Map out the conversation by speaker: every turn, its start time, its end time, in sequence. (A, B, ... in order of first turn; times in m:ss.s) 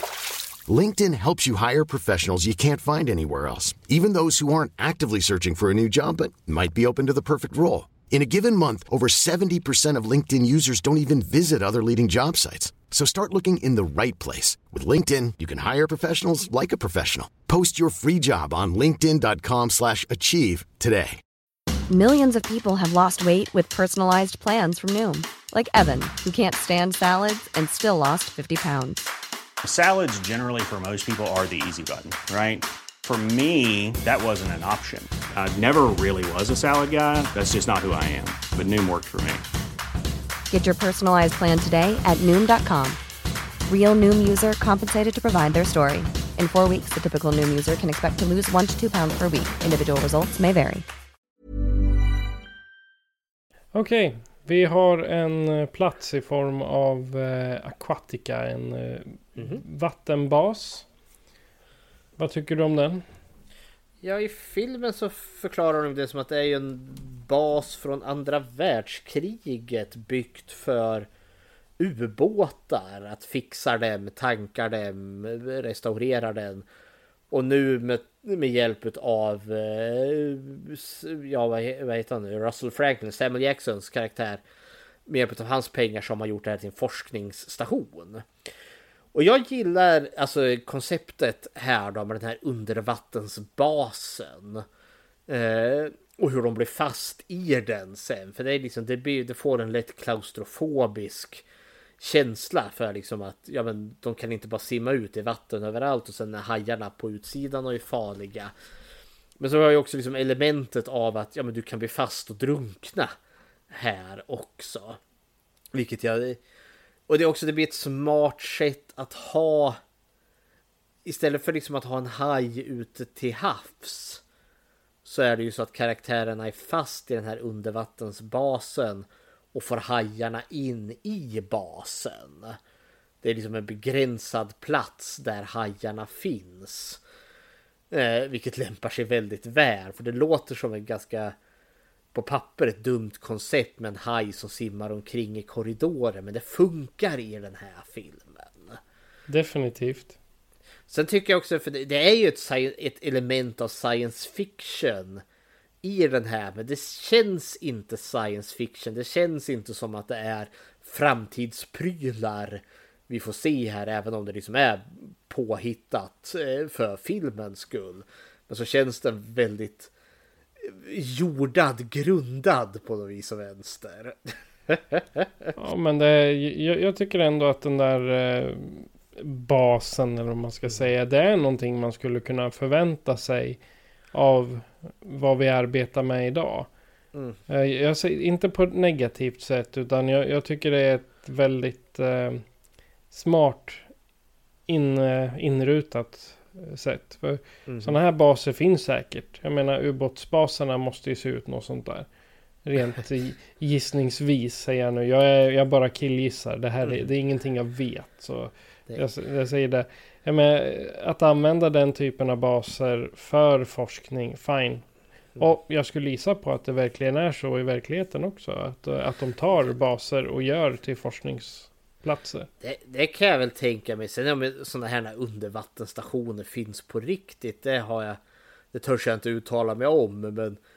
0:00.7-0:21.2 A
0:21.9-0:29.0 B
0:29.6-0:39.4 C
0:40.5-0:43.0 B
0:43.7-0:50.8 B
0:53.7-1:00.9 D
1:02.2-1:03.0 D
1:04.0-1:11.1 E
1:11.8-1:16.6 E
1:17.3-1:24.4 E
1:25.1-1:28.2 E
1:29.1-1:34.6 E
1:35.3-1:41.4 E
1:42.0-1:48.5 E
1:49.4-1:53.1 E
1:53.7-1:55.0 E
1:55.7-1:56.4 E
1:57.1-1:59.8 E
2:01.0-2:04.2 E
2:05.0-2:12.6 E
2:13.2-2:17.0 E
2:17.9-2:21.4 E
2:22.1-2:28.8 E
2:29.3-2:30.2 D
2:30.9-2:35.2 E
2:35.8-2:49.9 E
2:50.6-2:54.2 E
2:54.7-2:55.5 E
2:55.6-3:03.6 D
3:04.1-3:06.7 D
3:07.5-3:12.4 D
3:13.1-3:13.9 D
3:14.7-3:22.1 D
3:17.7-3:18.0 E
3:22.6-3:34.8 D
3:26.8-3:27.1 E
3:35.4-3:42.5 D
3:42.6-3:48.2 E
3:48.7-3:50.6 E